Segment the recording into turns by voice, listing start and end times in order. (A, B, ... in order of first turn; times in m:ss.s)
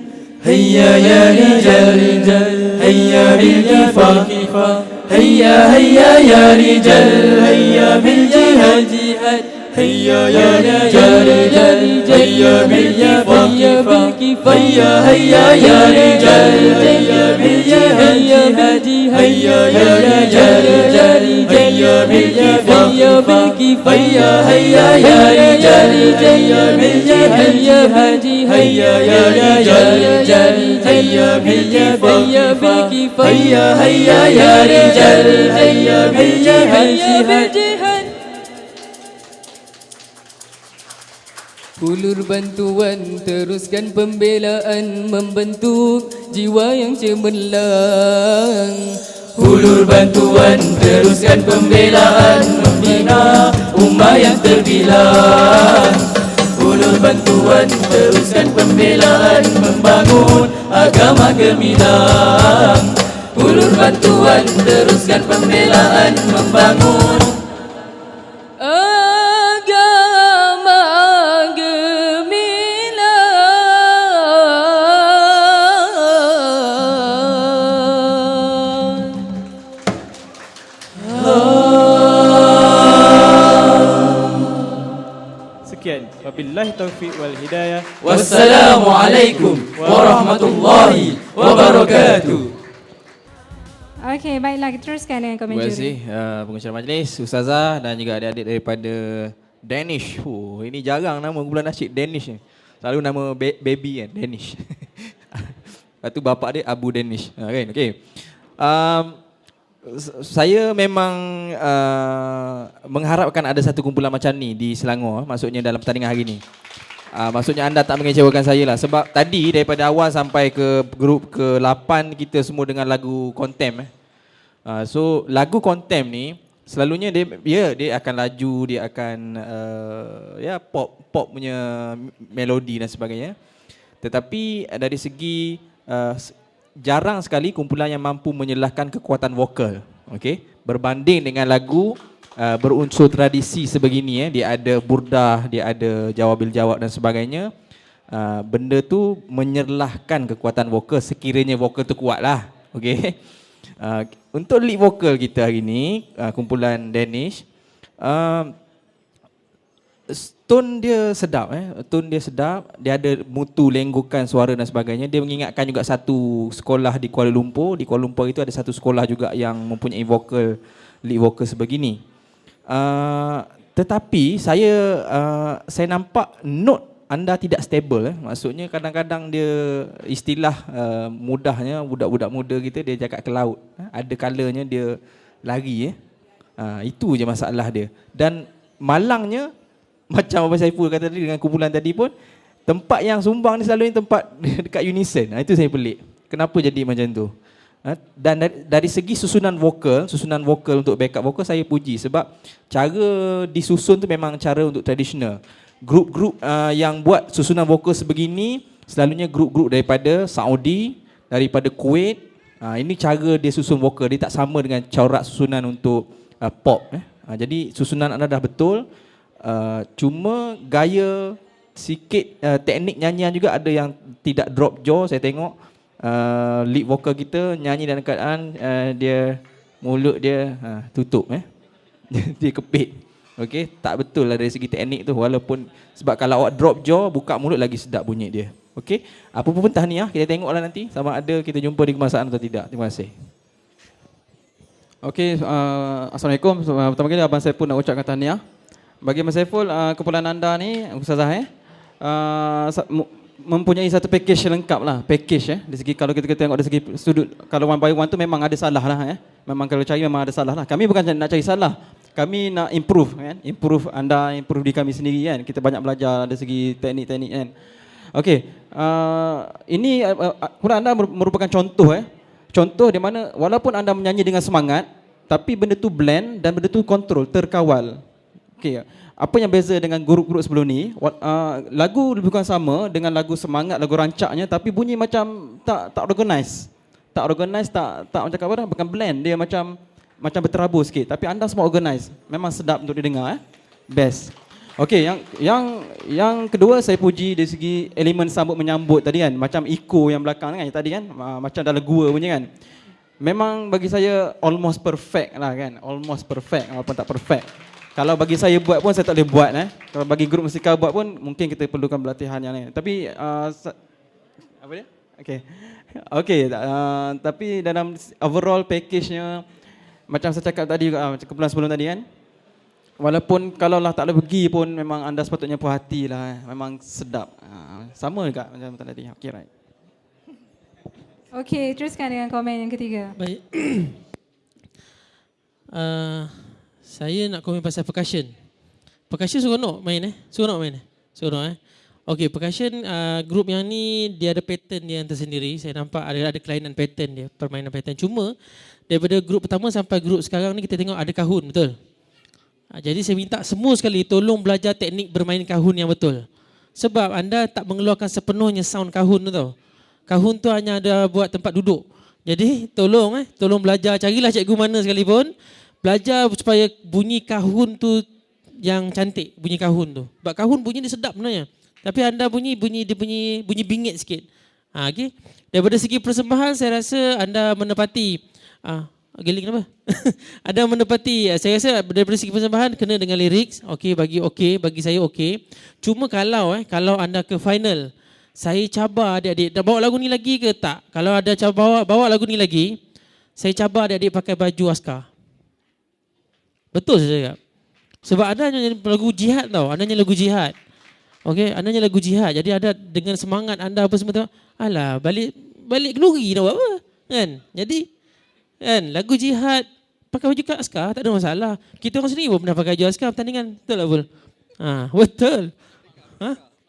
0:00.4-0:18.6 A
0:10.4-0:38.1 B
0:19.3-0:28.0 A
0:28.5-0:37.4 A
0:41.8-0:49.0 B
0:49.4-1:07.4 A
1:08.6-1:19.2 B
1:21.2-1:24.0 A
1:25.6-1:27.9 C
1:28.0-1:32.5 A
1:29.8-1:30.6 C
1:34.0-1:35.9 D
1:35.5-1:49.2 E
1:49.9-1:56.4 E
1:57.1-2:03.9 E
2:04.7-2:13.4 E
2:14.0-2:27.5 E
2:28.1-2:33.2 E
2:33.8-2:37.4 E
2:38.0-2:38.5 E
2:40.1-2:52.0 E
2:52.7-3:06.0 E
3:06.6-3:09.5 E
3:10.1-3:12.1 E
3:12.7-3:17.3 E
3:17.8-3:38.9 E
3:39.4-3:51.5 E
3:52.1-4:03.1 E
4:05.0-4:08.4 F
4:09.0-4:11.5 F
4:12.0-4:27.5 F
4:28.1-4:38.0 F
4:38.6-5:02.5 F
5:03.2-5:13.8 F
5:14.6-5:19.4 F
5:20.1-5:22.0 F
5:23.0-5:29.5 F
5:31.4-5:33.2 D
5:33.2-5:34.0 G
5:35.7-5:38.3 G
5:39.1-5:48.4 G
5:48.9-5:51.8 G
5:52.8-5:56.2 G
5:56.8-5:59.5 G
6:00.1-6:05.3 G
6:05.8-6:08.0 G
6:08.6-6:32.8 G
6:33.4-6:35.1 G
6:36.7-6:37.4 G
6:38.0-6:40.6 G
6:41.2-6:47.9 G
6:48.6-6:55.5 G